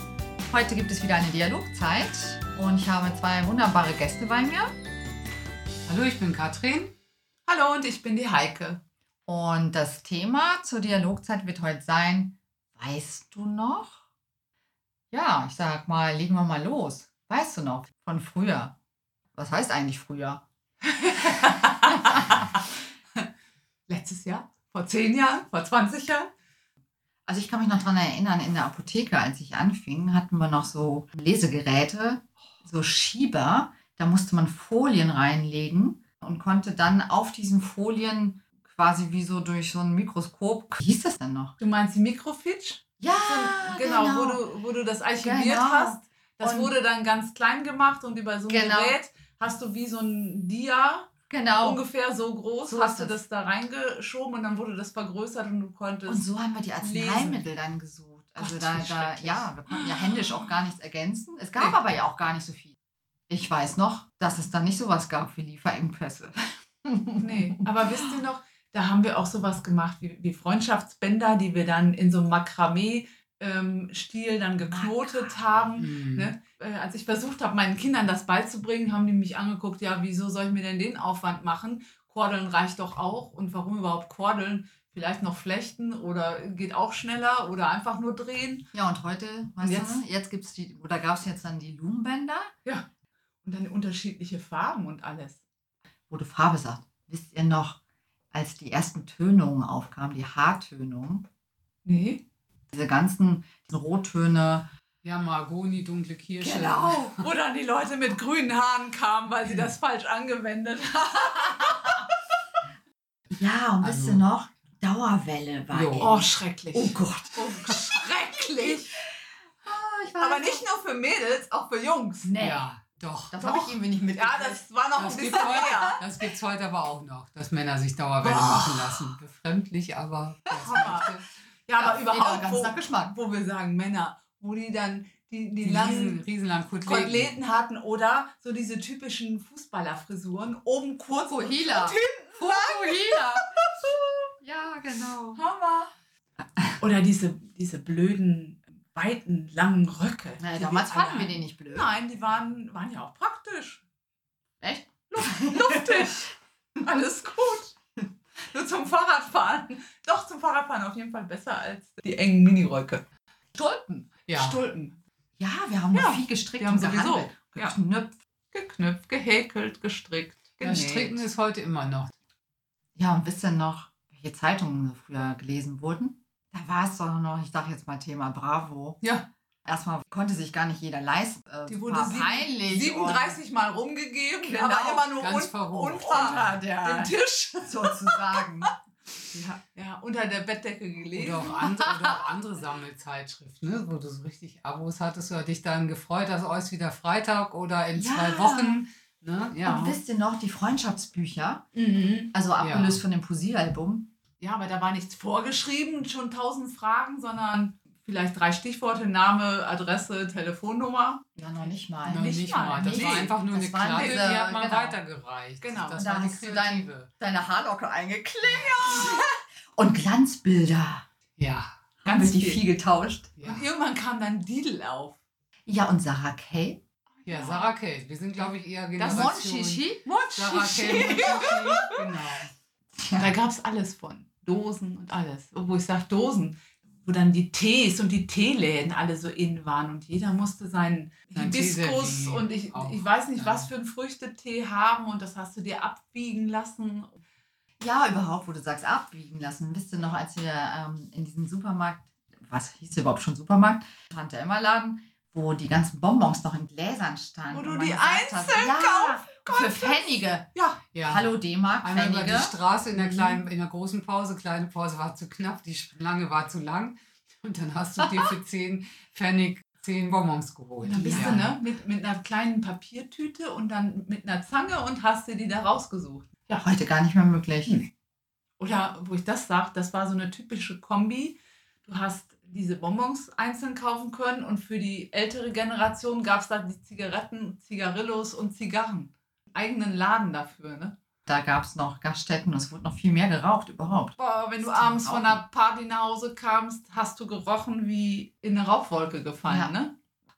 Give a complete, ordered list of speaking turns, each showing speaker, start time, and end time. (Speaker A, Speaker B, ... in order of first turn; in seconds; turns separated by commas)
Speaker A: 0.5-4.7, Speaker B: 5.8-6.9, Speaker C: 7.5-8.8, Speaker A: 9.3-14.0, Speaker A: 15.1-18.7, Speaker A: 19.3-20.4, Speaker C: 20.8-22.6, Speaker A: 21.9-22.5, Speaker C: 23.9-26.3, Speaker A: 27.3-41.5, Speaker C: 41.6-57.5, Speaker A: 43.0-44.4, Speaker A: 45.2-46.7, Speaker A: 48.5-49.0, Speaker A: 51.3-51.8, Speaker A: 52.6-53.2, Speaker A: 56.1-62.8, Speaker C: 58.4-60.4, Speaker B: 58.6-59.4, Speaker A: 63.3-67.6, Speaker C: 67.2-88.7, Speaker A: 74.7-75.7, Speaker B: 75.8-76.3, Speaker A: 88.7-92.5, Speaker C: 89.6-90.0, Speaker C: 93.4-95.4, Speaker A: 96.1-97.8, Speaker A: 98.3-101.2, Speaker C: 101.8-102.2, Speaker A: 102.7-104.7, Speaker B: 105.0-107.2, Speaker C: 106.4-112.0, Speaker A: 113.3-118.0, Speaker B: 113.8-114.2, Speaker B: 115.7-116.1, Speaker C: 116.0-119.0, Speaker A: 119.6-120.6, Speaker C: 120.2-122.3, Speaker A: 122.2-122.7, Speaker B: 122.4-123.5, Speaker A: 123.3-124.6, Speaker C: 123.4-126.0, Speaker B: 125.0-131.2, Speaker A: 125.1-126.0, Speaker C: 128.2-128.7, Speaker A: 130.5-130.9, Speaker C: 130.6-131.1, Speaker C: 131.7-136.2, Speaker A: 131.8-133.1, Speaker B: 135.6-137.3, Speaker C: 136.8-143.9, Speaker A: 141.1-145.4, Speaker C: 145.3-145.9, Speaker C: 146.8-153.8, Speaker A: 150.4-151.9, Speaker A: 154.6-156.2, Speaker C: 155.1-157.7, Speaker C: 158.5-165.0, Speaker B: 164.3-164.6, Speaker A: 165.4-168.2, Speaker C: 165.9-167.7, Speaker C: 168.5-171.2, Speaker B: 170.6-172.1, Speaker A: 172.9-179.0, Speaker C: 179.0-179.3, Speaker A: 179.6-183.4, Speaker C: 181.7-188.4, Speaker A: 184.4-185.1, Speaker B: 185.2-186.6, Speaker A: 186.1-187.1, Speaker A: 187.6-188.7, Speaker C: 189.3-191.9, Speaker B: 191.1-199.8, Speaker A: 197.9-198.8, Speaker C: 199.6-200.0, Speaker A: 199.6-201.6, Speaker C: 201.7-202.3, Speaker A: 202.3-204.1, Speaker B: 202.6-203.0, Speaker C: 204.4-213.3, Speaker A: 211.4-215.0, Speaker B: 212.1-217.1, Speaker C: 213.9-214.3, Speaker C: 215.6-216.0, Speaker A: 215.9-221.0, Speaker C: 218.5-219.3, Speaker B: 221.4-221.7, Speaker A: 222.0-223.4, Speaker C: 222.0-222.6, Speaker B: 223.4-223.6, Speaker C: 223.4-225.2, Speaker A: 225.7-226.8, Speaker C: 227.2-227.7, Speaker B: 227.2-232.5, Speaker C: 228.9-232.0, Speaker A: 229.1-230.0, Speaker A: 232.9-233.3, Speaker C: 233.1-247.2, Speaker B: 241.3-243.7, Speaker A: 247.8-260.5, Speaker C: 257.5-260.8, Speaker B: 260.9-261.3, Speaker A: 261.0-263.4, Speaker B: 261.8-271.4, Speaker C: 270.8-276.6, Speaker A: 271.1-271.5, Speaker A: 276.5-277.8, Speaker C: 278.6-290.9, Speaker A: 291.2-295.4, Speaker C: 294.2-299.9, Speaker A: 299.4-299.7